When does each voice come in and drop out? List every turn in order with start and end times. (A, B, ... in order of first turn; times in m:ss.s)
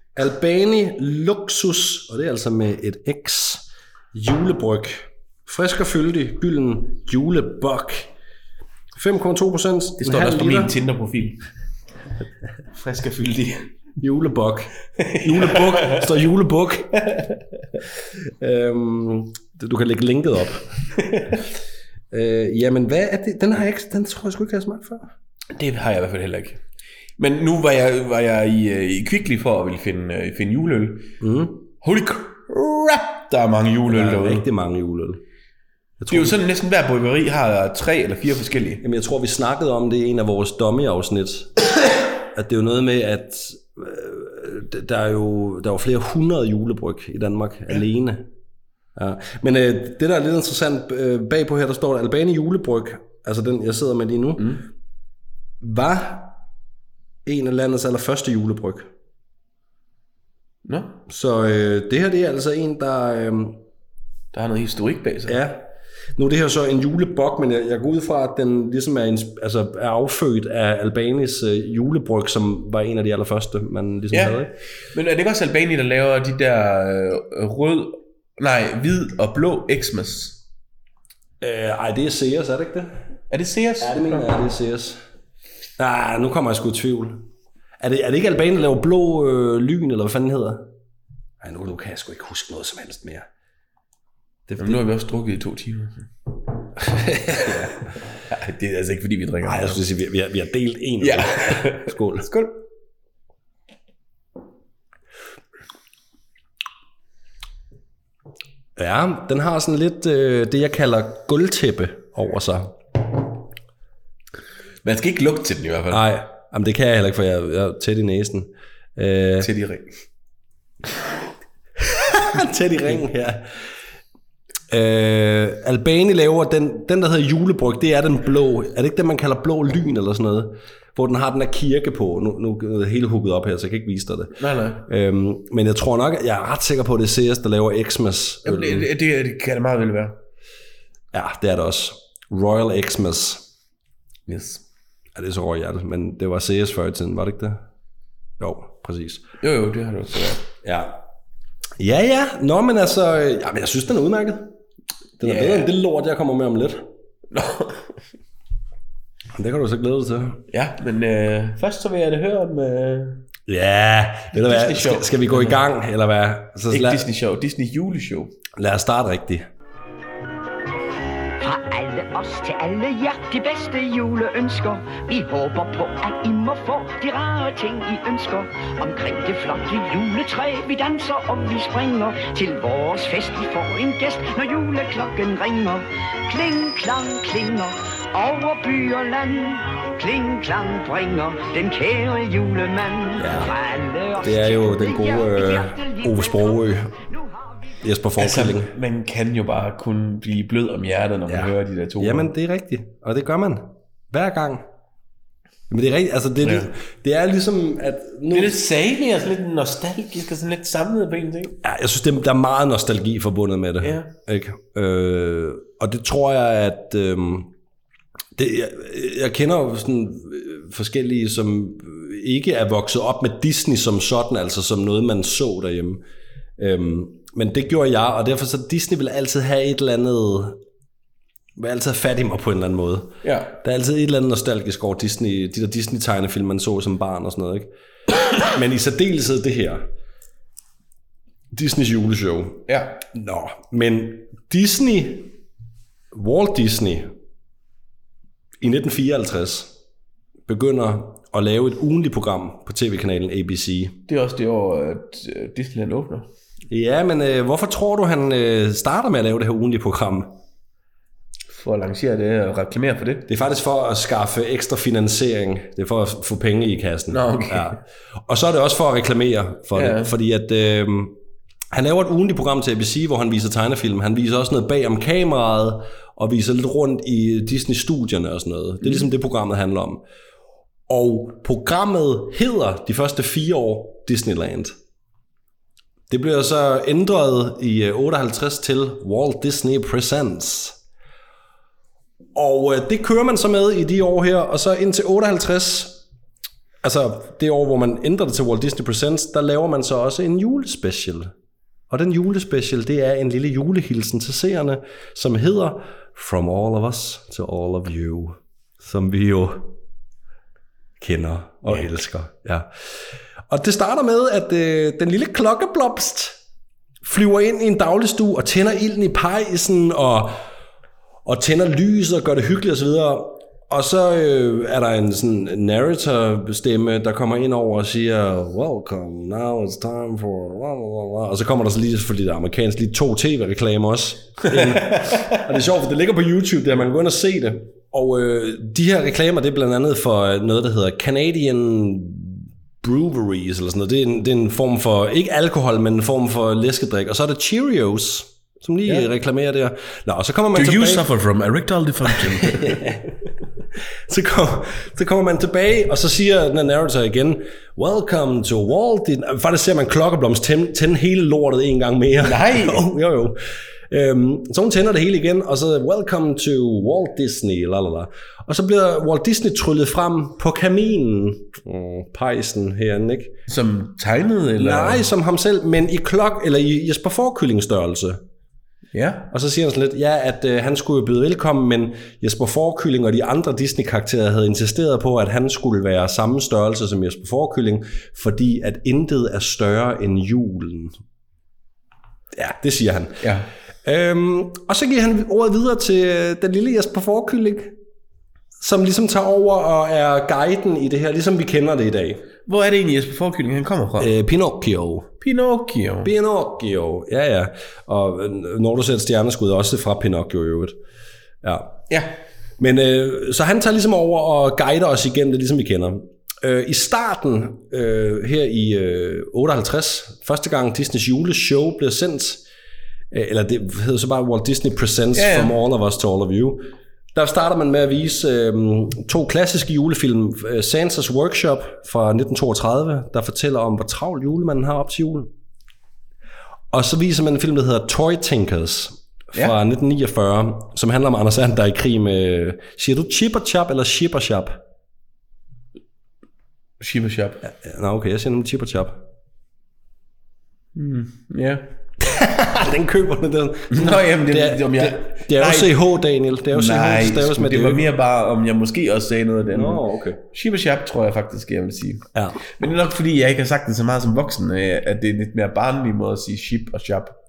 0:00.2-0:08.1 A
0:09.0-0:10.7 A
0:10.0-0:11.4 B
0:12.7-0:13.7 B
0:14.0-0:16.9 A
0:15.0-0:16.1 B
0:17.0-0:17.4 B
0:18.2-0:21.4 A
0:22.1-0:25.1 A
0:25.5-0:26.6 B
0:27.2-0:31.1 B
0:31.2-0:31.6 A
0:31.8-0:34.4 B
0:33.9-0:35.2 A
0:36.0-0:36.4 A
0:36.1-0:38.8 B
0:38.8-0:41.5 A
0:42.3-0:48.3 A
0:49.0-0:54.6 A
0:54.4-0:54.6 B
0:55.6-0:56.4 A
0:57.2-0:58.9 A
1:00.6-1:01.0 B
1:01.1-1:03.6 A
1:04.3-1:05.4 B
1:05.3-1:14.5 A
1:14.1-1:20.4 B
1:21.4-1:23.0 A
1:23.3-1:24.3 B
1:23.8-1:25.0 A
1:25.8-1:27.3 A
1:27.8-1:30.7 A
1:31.4-1:33.3 A
1:34.5-1:34.8 A
1:34.6-1:36.1 B
1:36.8-1:37.7 A
1:38.3-1:39.8 B
1:39.4-1:42.3 A
1:41.0-1:42.5 B
1:48.8-1:52.8 A
1:54.8-1:56.1 B
1:55.9-1:59.5 A
1:59.4-2:00.0 B
2:01.9-2:03.5 A
2:04.7-2:18.9 A
2:14.4-2:14.8 B
2:18.4-2:20.2 B
2:21.1-2:23.5 A
2:24.3-2:24.6 B
2:25.1-2:27.6 A
2:28.4-2:29.2 A
2:29.4-2:30.5 B
2:30.6-2:31.0 A
2:31.8-2:34.5 A
2:35.2-2:36.9 A
2:35.2-2:35.7 B
2:37.3-2:37.9 B
2:39.3-2:40.4 A
2:40.5-2:43.2 B
2:43.5-2:47.1 A
2:44.3-2:45.6 B
2:46.7-2:48.3 B
2:48.6-2:49.5 A
2:51.4-3:17.8 C
3:13.2-3:13.5 A
3:14.2-3:16.9 A
3:17.8-3:18.7 A
3:18.2-3:22.3 B
3:21.3-3:24.6 A
3:25.7-3:28.6 A
3:26.4-3:26.7 B
3:28.3-3:31.6 B
3:31.6-3:37.5 A
3:33.8-3:34.1 B
3:38.4-3:46.0 A
3:46.6-3:50.6 A
3:51.6-3:57.7 A
3:53.2-3:53.5 B
3:58.4-3:59.8 A
4:01.5-4:05.3 A
4:02.7-4:03.0 B
4:06.1-4:07.1 A
4:08.6-4:09.7 A
4:10.5-4:14.0 A
4:14.1-4:16.3 B
4:16.7-4:20.4 A
4:21.5-4:23.3 B
4:23.3-4:31.1 A
4:27.1-4:27.8 B
4:29.7-4:30.1 B
4:31.7-4:40.0 A
4:40.9-4:44.7 A
4:46.1-4:50.8 A
4:52.3-4:56.0 A
4:56.8-5:01.3 A
5:01.9-5:09.8 A
5:11.0-5:12.7 A
5:13.5-5:16.4 A
5:17.0-5:20.4 A
5:21.2-5:51.1 A
5:34.7-5:35.3 B
5:50.5-5:53.0 B
5:52.1-5:53.0 A
5:54.1-6:03.4 A
6:02.2-6:02.9 B
6:03.9-6:13.3 A
6:13.5-6:15.1 B
6:14.6-6:18.2 A
6:18.9-6:19.3 B
6:19.3-6:31.0 A
6:32.3-6:33.2 A
6:33.2-6:33.5 B
6:33.8-6:37.7 A
6:38.6-6:42.2 A
6:42.5-6:44.1 B
6:44.0-6:45.1 A
6:45.2-6:46.1 B
6:46.0-6:50.8 A
6:51.4-6:51.8 A
6:52.6-7:02.4 A
7:03.1-7:15.3 A
7:05.1-7:05.5 B
7:16.7-7:24.6 A
7:26.8-7:27.4 B
7:27.4-7:29.0 A
7:30.8-7:31.7 B
7:32.0-7:37.8 A
7:33.7-7:35.8 B
7:36.5-7:47.2 B
7:39.5-7:40.2 A
7:42.1-7:42.4 A